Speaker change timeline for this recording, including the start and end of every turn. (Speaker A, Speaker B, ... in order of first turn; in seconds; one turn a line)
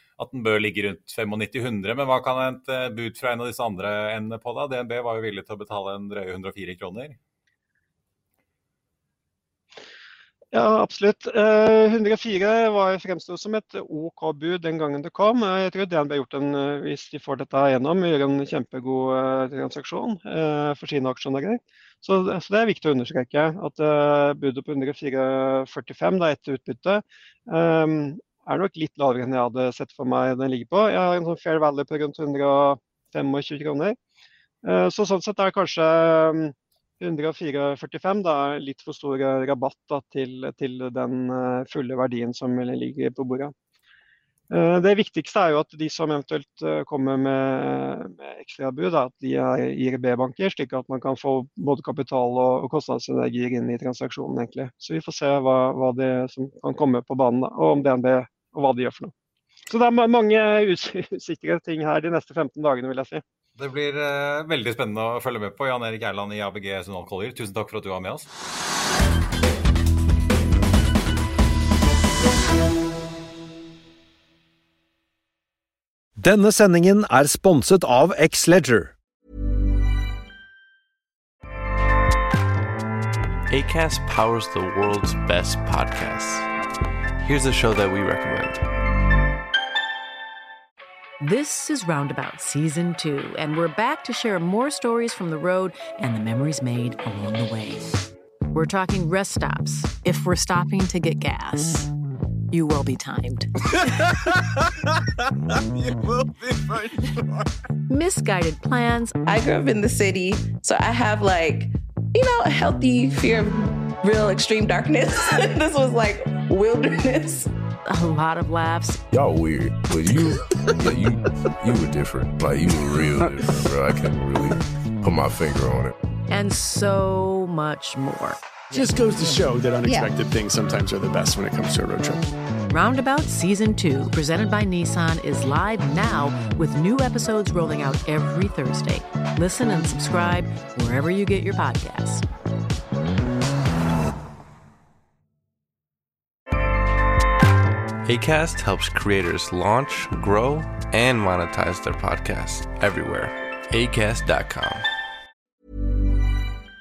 Speaker A: 0.2-7.2
Speaker B: 10.5-34.0
Speaker B: 34.6-43.5
Speaker B: 44.5-59.1
Speaker B: 59.7-63.2
Speaker A: 63.6-68.3
Speaker C: 76.2-78.9
Speaker D: 83.5-86.5
Speaker D: 87.2-88.6
Speaker E: 91.2-97.9
Speaker E: 98.5-101.9
Speaker E: 102.5-103.5
Speaker E: 107.9-109.2
Speaker F: 109.2-117.5
Speaker E: 117.9-119.0
Speaker G: 119.1-125.9
Speaker E: 126.3-128.4
Speaker H: 128.7-132.2
Speaker F: 129.8-130.1
Speaker E: 132.7-142.2
Speaker D: 148.1-154.8